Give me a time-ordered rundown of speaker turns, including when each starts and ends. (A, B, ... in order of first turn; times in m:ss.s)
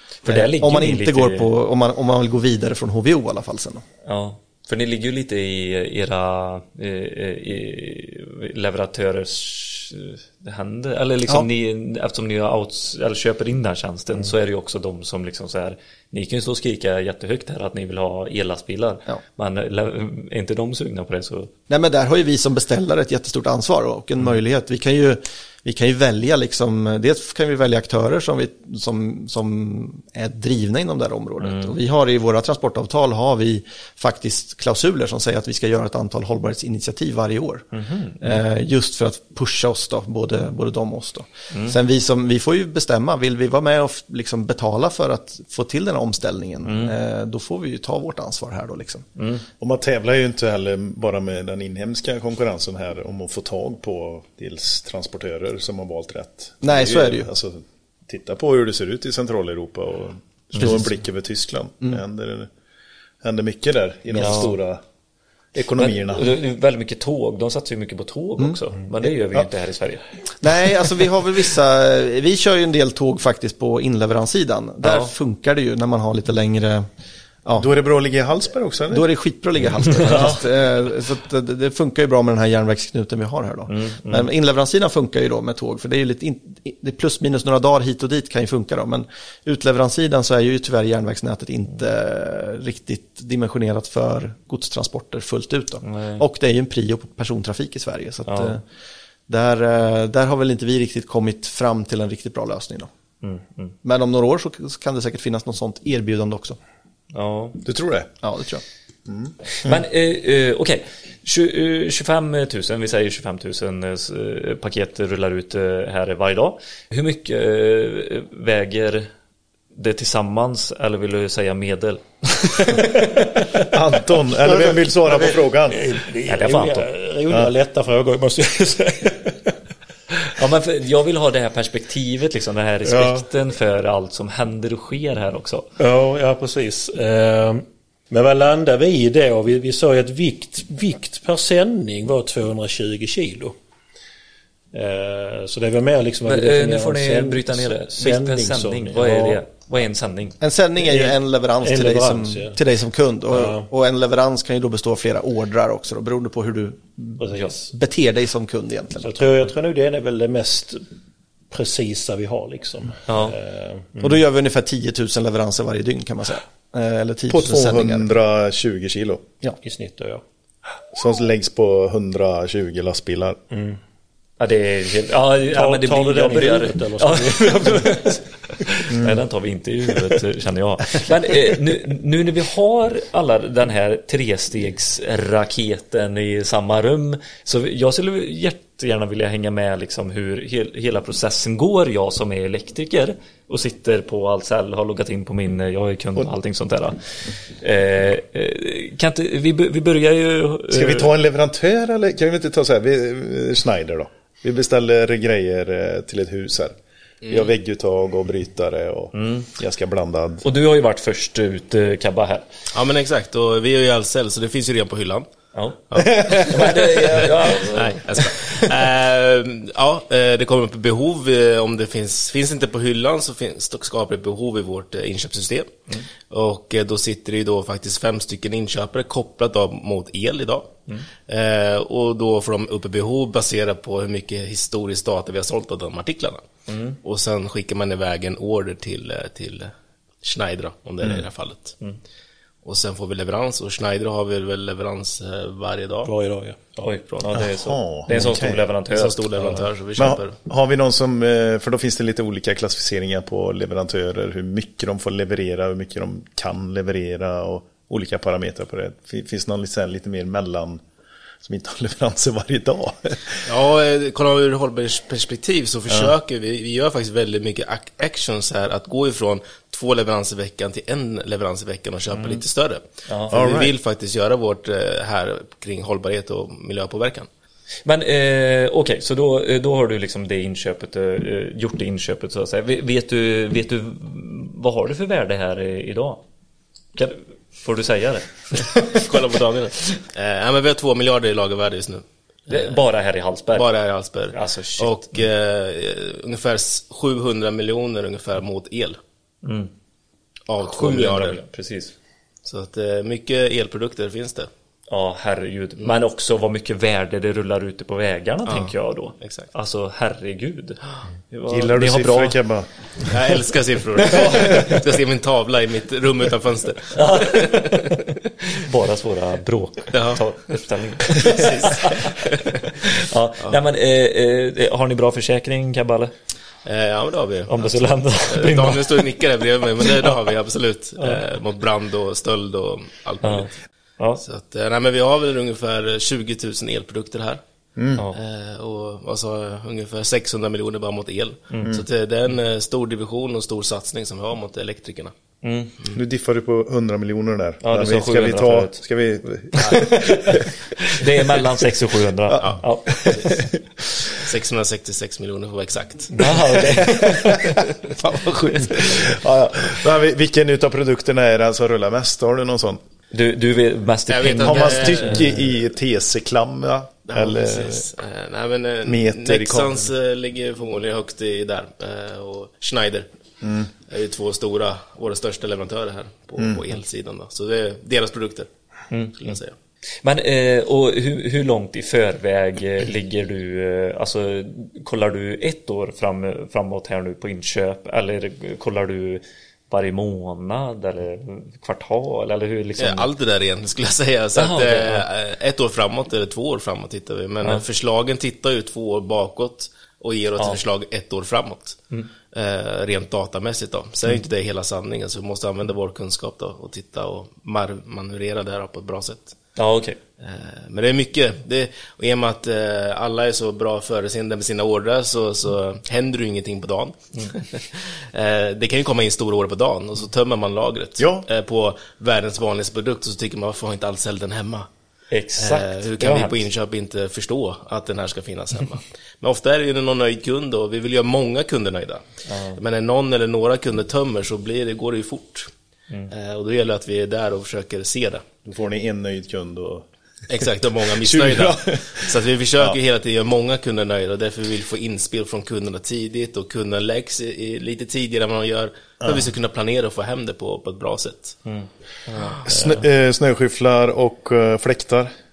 0:00.2-0:01.5 A
0:00.3-0:03.8 B
0:04.0-0:21.5 A
0:21.7-0:37.7 B
0:31.4-0:31.7 A
0:37.7-0:38.4 A
0:38.2-0:49.0 B
0:41.5-0:41.8 A
0:46.6-0:46.9 A
0:49.2-0:49.4 A
0:49.6-1:02.5 C
0:56.6-0:57.3 B
1:00.6-1:00.9 B
1:03.2-1:04.8 C
1:04.1-1:04.5 A
1:05.5-1:06.3 C
1:05.5-1:10.0 A
1:10.4-1:16.9 B
1:14.8-1:15.1 A
1:17.4-1:17.7 B
1:17.6-1:19.1 C
1:18.9-1:38.6 B
1:19.9-1:20.4 A
1:23.7-1:24.3 A
1:35.8-1:36.2 A
1:38.3-1:38.6 A
1:39.3-1:42.9 B
1:43.2-1:43.7 A
1:43.8-1:46.6 B
1:47.1-1:47.6 A
1:47.6-1:48.1 C
1:48.2-1:48.6 B
1:49.1-1:49.8 C
1:49.6-1:59.1 A
1:59.7-2:02.6 A
2:02.7-2:03.4 D
2:03.7-2:05.8 C
2:04.3-2:09.6 D
2:06.3-2:06.9 A
2:10.4-2:15.6 A
2:12.8-2:13.2 D
2:15.8-2:23.5 D
2:24.7-2:29.4 D
2:26.2-2:30.4 A
2:30.4-2:39.1 B
2:30.8-2:32.6 D
2:33.3-2:33.7 D
2:37.2-2:37.7 D
2:39.0-2:40.8 D
2:41.5-2:44.2 D
2:43.1-2:43.4 A
2:44.0-2:48.0 B
2:47.3-2:49.2 C
2:49.6-2:50.2 D
2:50.9-2:53.4 C
2:53.5-2:53.8 D
2:54.4-3:17.0 A
2:55.5-2:58.2 D
2:58.9-2:59.2 C
3:17.6-3:21.1 A
3:20.7-3:26.8 C
3:27.2-3:27.5 E
3:27.3-3:30.5 C
3:29.1-3:29.5 A
3:30.4-3:32.4 A
3:32.7-3:35.3 E
3:35.5-3:38.0 A
3:35.9-3:45.7 E
3:36.0-3:36.4 C
3:46.3-3:50.7 E
3:51.3-3:56.4 E
3:56.7-3:57.0 A
3:57.0-3:59.7 E
4:00.2-4:01.8 E
4:02.6-4:06.1 E
4:06.0-4:07.4 D
4:06.8-4:09.3 A
4:07.3-4:08.6 C
4:08.9-4:10.4 E
4:09.4-4:09.6 D
4:10.0-4:20.8 C
4:21.4-4:23.5 C
4:23.4-4:37.3 E
4:33.3-4:33.7 C
4:37.8-4:46.2 A
4:46.9-4:48.8 A
4:48.6-4:52.7 E
4:52.5-4:53.7 A
4:53.5-4:59.0 E
4:54.3-4:55.1 A
4:59.4-4:59.7 A
5:00.5-5:01.4 E
5:00.6-5:01.9 A
5:02.4-5:04.5 E
5:04.9-5:12.4 A
5:08.4-5:09.5 E
5:11.5-5:13.1 C
5:13.1-5:17.8 E
5:14.1-5:14.7 C
5:14.1-5:14.7 A
5:17.0-5:26.1 A
5:19.9-5:20.3 E
5:21.0-5:22.6 E
5:26.6-5:33.5 E
5:27.5-5:29.0 A
5:33.2-5:34.2 A
5:34.2-5:37.4 E
5:37.8-5:38.0 C
5:38.1-5:45.1 E
5:41.5-5:41.8 A
5:45.4-5:45.7 A
5:45.9-5:50.5 C
5:47.6-5:48.8 A
5:49.6-5:52.8 A
5:52.3-5:54.1 C
5:54.1-5:56.3 E
5:56.2-5:57.5 A
5:56.6-6:02.8 C
6:03.1-6:05.3 A
6:04.1-6:05.4 E
6:04.4-6:07.8 C
6:07.1-6:13.1 E
6:08.8-6:09.8 C
6:13.4-6:13.7 C
6:13.8-6:18.5 E
6:16.4-6:16.6 C
6:18.9-6:19.3 A
6:19.1-6:19.5 E
6:20.0-6:33.1 A
6:32.8-6:41.8 E
6:34.4-6:35.1 A
6:42.3-6:49.4 E
6:49.6-6:50.0 A
6:50.2-7:04.7 E
7:01.0-7:01.3 C
7:05.1-7:06.4 A
7:05.4-7:12.0 E
7:12.3-7:12.6 A
7:12.6-7:15.5 E
7:16.1-7:18.2 E
7:18.4-7:19.9 C
7:20.3-7:31.4 E
7:20.9-7:22.8 C
7:29.0-7:29.3 C
7:31.4-7:32.3 A
7:32.4-7:35.1 C
7:32.5-7:32.8 D